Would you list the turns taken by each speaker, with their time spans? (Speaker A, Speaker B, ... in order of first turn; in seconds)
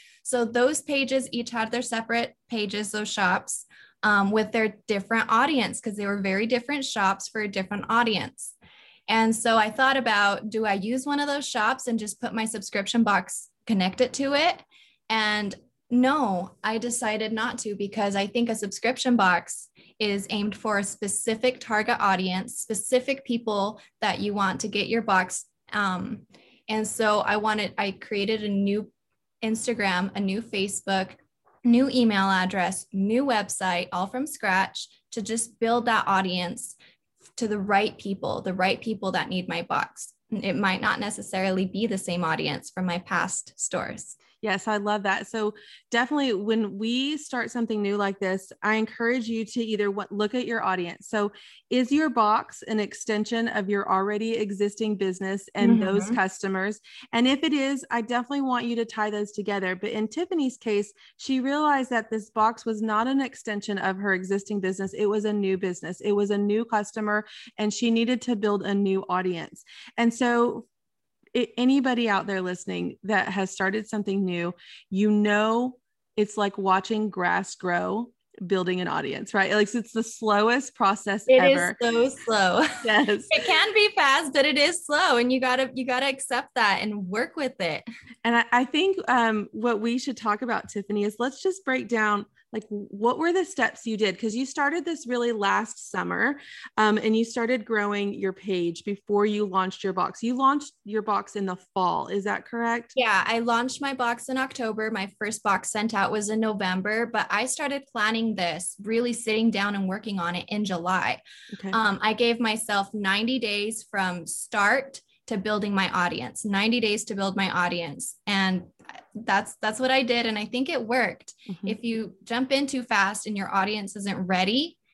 Speaker A: 0.2-8.6, 9.1-28.9, 29.4-36.8, 37.4-44.2, 55.6-56.2, 81.3-87.8, 103.0-124.8
Speaker B: 44.4-70.7, 71.3-81.8, 82.8-83.4, 88.2-102.9, 111.5-111.8, 121.5-121.8